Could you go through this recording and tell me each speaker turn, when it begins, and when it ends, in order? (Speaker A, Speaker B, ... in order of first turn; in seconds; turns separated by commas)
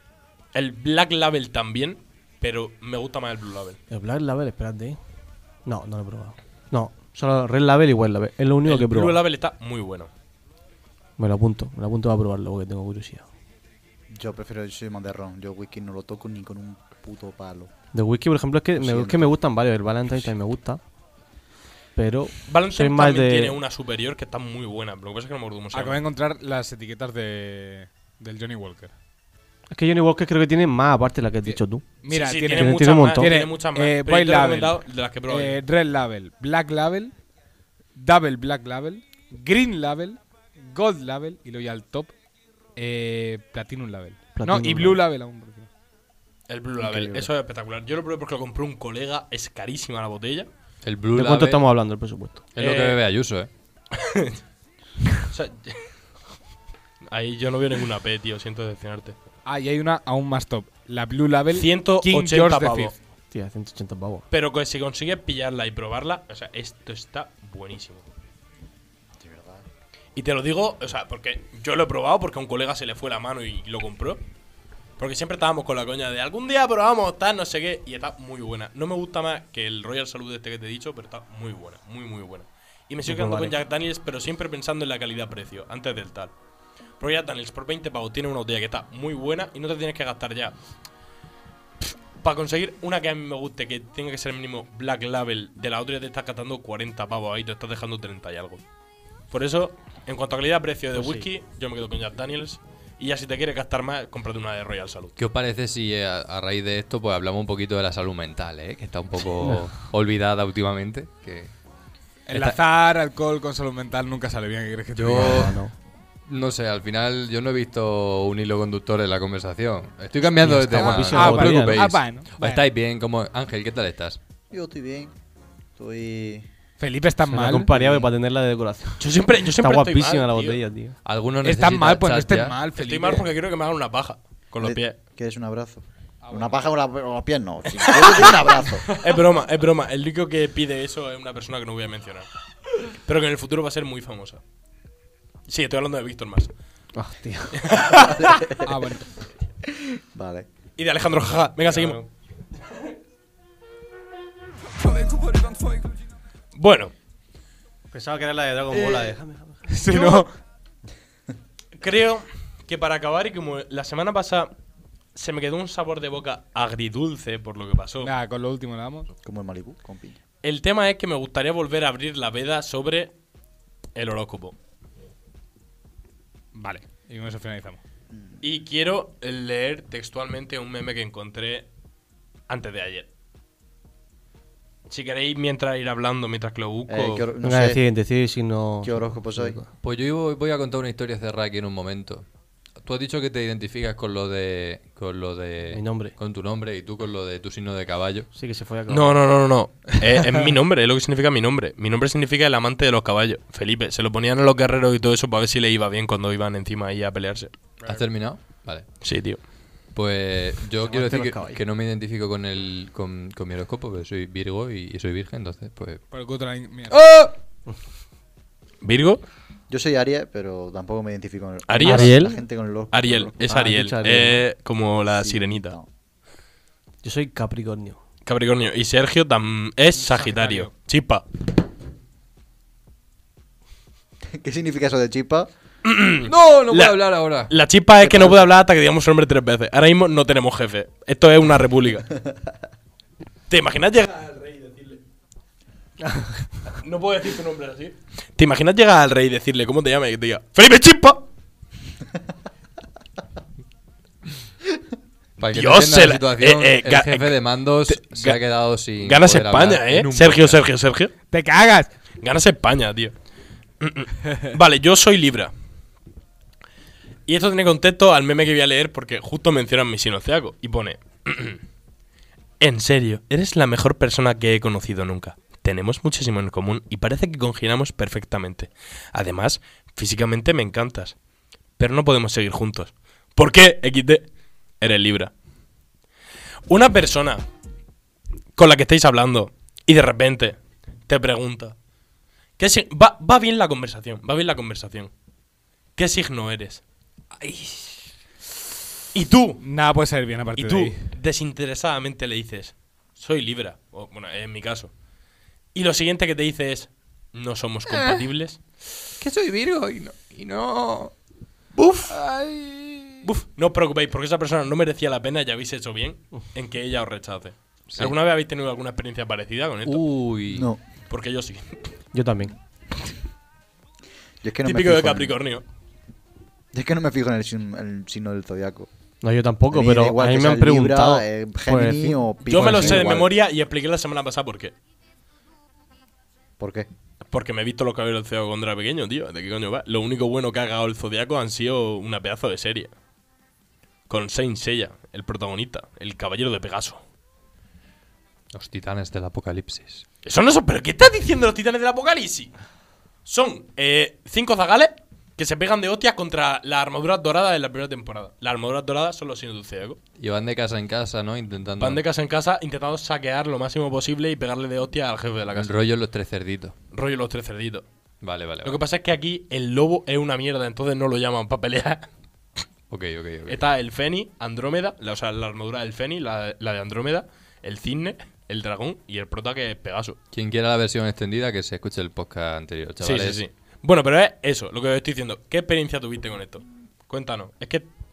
Speaker A: 0.5-3.8, Speaker B: 3.9-5.0, Speaker B: 5.6-9.2, Speaker A: 8.6-10.1, Speaker B: 11.2-13.3, Speaker C: 14.1-17.7, Speaker B: 17.9-20.8, Speaker C: 18.8-19.3, Speaker B: 21.9-23.6, Speaker A: 22.5-26.0, Speaker D: 25.7-28.9, Speaker B: 29.7-31.9, Speaker D: 31.4-37.1, Speaker A: 32.1-35.6, Speaker B: 32.5-33.3, Speaker D: 37.9-42.1, Speaker D: 42.7-45.7, Speaker B: 44.4-45.0, Speaker A: 46.5-50.5, Speaker C: 46.8-47.3, Speaker E: 50.8-51.6, Speaker B: 51.1-52.4, Speaker E: 52.5-53.5, Speaker A: 52.6-53.0, Speaker A: 53.9-54.4, Speaker A: 55.2-55.9, Speaker A: 57.1-59.1, Speaker D: 59.5-62.9, Speaker A: 61.5-62.9, Speaker B: 63.3-64.2, Speaker A: 64.3-68.0, Speaker C: 69.2-69.6, Speaker A: 70.2-74.2, Speaker A: 75.0-86.3, Speaker B: 83.0-83.5, Speaker A: 87.0-90.5, Speaker A: 91.8-98.6, Speaker A: 99.3-105.1, Speaker B: 101.0-101.3, Speaker E: 105.2-111.5, Speaker B: 109.4-109.7, Speaker D: 112.3-115.5, Speaker E: 112.3-112.6, Speaker E: 114.9-115.6, Speaker B: 115.1-115.7, Speaker E: 116.2-124.2, Speaker B: 120.4-121.9, Speaker D: 120.7-122.7, Speaker C: 124.5-125.1, Speaker C: 125.8-126.5, Speaker D: 126.8-127.7, Speaker B: 127.2-130.9, Speaker C: 127.8-128.1, Speaker A: 129.0-130.6, Speaker E: 131.0-132.6, Speaker D: 131.4-133.3, Speaker A: 132.7-135.0, Speaker C: 134.6-138.9, Speaker D: 136.2-136.7, Speaker A: 138.9-142.3, Speaker A: 142.8-144.4, Speaker A: 145.5-146.5, Speaker B: 146.9-147.7, Speaker A: 147.6-148.4, Speaker C: 147.9-148.6, Speaker D: 148.6-149.1, Speaker C: 149.7-150.5, Speaker A: 150.8-152.0, Speaker A: 156.5-156.9, Speaker B: 157.9-159.6, Speaker A: 158.7-159.1, Speaker D: 159.7-160.3, Speaker A: 159.8-160.3, Speaker A: 161.8-164.5, Speaker A: 165.1-168.1, Speaker D: 168.0-169.1, Speaker C: 169.2-170.2, Speaker A: 170.4-173.1, Speaker A: 173.9-174.5, Speaker D: 176.5-177.8, Speaker A: 178.4-181.7, Speaker A: 182.5-183.1, Speaker A: 184.9-187.3, Speaker C: 186.9-187.8, Speaker B: 187.4-189.7, Speaker C: 188.8-189.6, Speaker E: 189.8-192.2, Speaker E: 192.8-198.3, Speaker B: 195.7-196.2, Speaker B: 198.3-199.2, Speaker A: 198.9-207.5, Speaker E: 207.8-208.9, Speaker A: 209.0-209.4, Speaker E: 209.9-216.0, Speaker B: 210.8-211.6, Speaker D: 216.1-217.0, Speaker E: 216.9-217.3, Speaker A: 218.8-219.2, Speaker C: 219.7-223.4, Speaker A: 221.7-222.1, Speaker B: 221.8-222.4, Speaker A: 222.9-225.8, Speaker B: 223.5-224.4, Speaker C: 225.1-225.8, Speaker B: 227.0-228.0, Speaker A: 228.2-231.2, Speaker D: 230.0-230.7, Speaker C: 234.3-235.5, Speaker A: 235.8-242.1, Speaker E: 236.2-237.5, Speaker C: 238.0-238.4, Speaker A: 243.5-245.0, Speaker B: 246.0-246.4, Speaker A: 246.7-251.2, Speaker E: 255.4-260.6, Speaker A: 255.5-257.3, Speaker A: 257.9-261.1, Speaker D: 261.3-261.9, Speaker A: 262.2-263.1, Speaker A: 263.8-265.5, Speaker A: 267.3-271.6, Speaker A: 272.6-281.1, Speaker A: 281.8-284.3, Speaker A: 284.8-285.3, Speaker A: 286.7-287.4, Speaker A: 288.6-291.7, Speaker A: 292.6-295.1, Speaker A: 295.9-296.8, Speaker A: 299.1-299.6, Speaker D: 299.6-301.1, Speaker A: 300.6-304.9, Speaker A: 305.7-308.6, Speaker E: 307.9-308.2, Speaker E: 309.2-311.1, Speaker A: 311.8-312.1, Speaker E: 312.0-313.3, Speaker A: 313.2-320.2, Speaker E: 319.8-320.7, Speaker C: 320.5-320.8, Speaker A: 321.1-321.9, Speaker B: 322.1-322.5, Speaker C: 324.4-325.4, Speaker A: 324.6-325.6, Speaker C: 326.7-328.9, Speaker B: 329.2-333.1, Speaker C: 329.7-333.3, Speaker A: 332.4-334.7, Speaker C: 336.6-336.9, Speaker A: 337.3-342.9, Speaker A: 344.1-347.0, Speaker E: 348.5-350.0, Speaker A: 350.2-352.5, Speaker A: 353.2-360.0, Speaker E: 360.2-362.0, Speaker A: 361.8-365.8, Speaker E: 365.5-366.7, Speaker A: 366.9-367.9, Speaker E: 368.2-368.8, Speaker A: 368.6-372.1, Speaker E: 372.9-373.6, Speaker A: 373.5-380.2, Speaker E: 380.3-383.4, Speaker A: 383.0-387.9